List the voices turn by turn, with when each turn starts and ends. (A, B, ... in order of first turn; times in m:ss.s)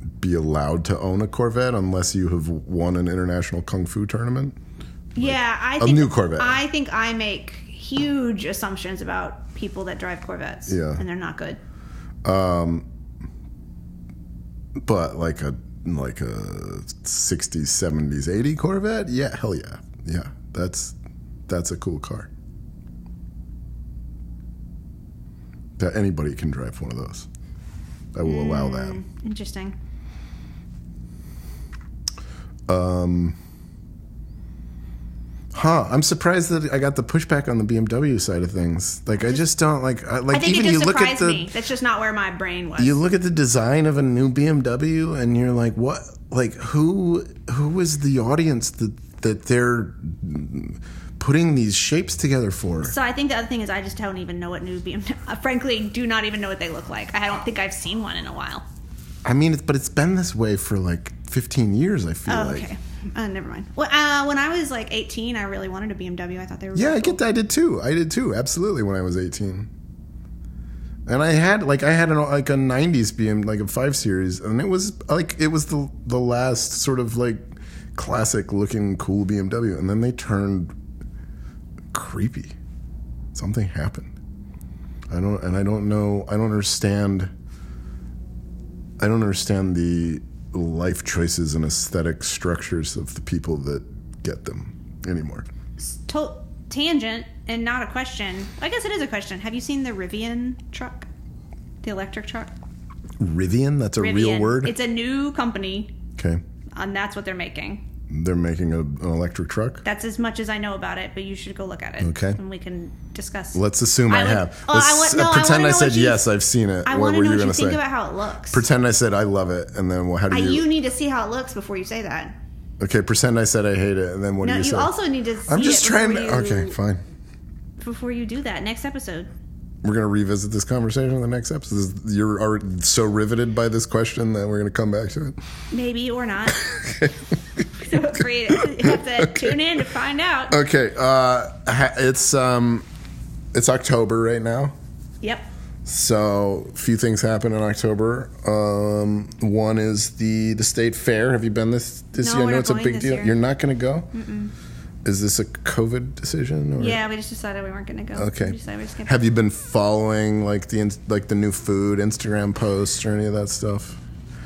0:00.2-0:04.6 A
0:05.2-0:11.6 B
0:05.2-0:06.6 A
0:10.7-0:11.0 A
0:12.2-0:12.9 A
0:14.8-0:21.0 A
0:21.5-0:22.3 A
0:25.8-0:27.3 A
0:28.1-0:29.0 A
0:28.2-0:29.8 B
0:32.7-0:33.4 A
0:35.5-0:41.5 A
0:40.3-0:43.0 B
0:42.8-0:52.9 A
0:52.8-0:58.6 B
0:59.2-1:02.7 A
1:02.3-1:07.2 B
1:06.8-1:09.7 A
1:11.1-1:20.8 A
1:21.9-1:22.6 A
1:23.3-1:24.1 A
1:25.1-1:27.3 A
1:29.0-1:35.5 A
1:35.8-1:41.1 B
1:41.8-1:42.5 B
1:43.2-1:44.7 A
1:44.0-1:46.0 B
1:46.2-1:46.4 A
1:46.7-1:47.8 B
1:48.1-1:49.8 A
1:49.8-1:56.2 B
1:52.0-1:52.4 A
1:53.6-1:57.8 A
1:56.9-1:58.6 B
1:58.5-2:00.7 A
2:00.3-2:02.4 B
2:02.8-2:04.9 A
2:04.4-2:06.8 B
2:05.5-2:07.0 A
2:07.8-2:09.3 B
2:09.8-2:15.4 A
2:15.7-2:16.6 B
2:16.6-2:17.6 A
2:17.8-2:20.6 B
2:18.5-2:19.6 A
2:20.5-2:22.8 A
2:23.5-2:24.8 A
2:25.2-2:25.5 B
2:25.8-2:34.1 A
2:32.2-2:33.3 B
2:34.1-2:34.5 B
2:35.0-2:37.0 A
2:36.8-2:39.2 B
2:38.2-2:44.0 A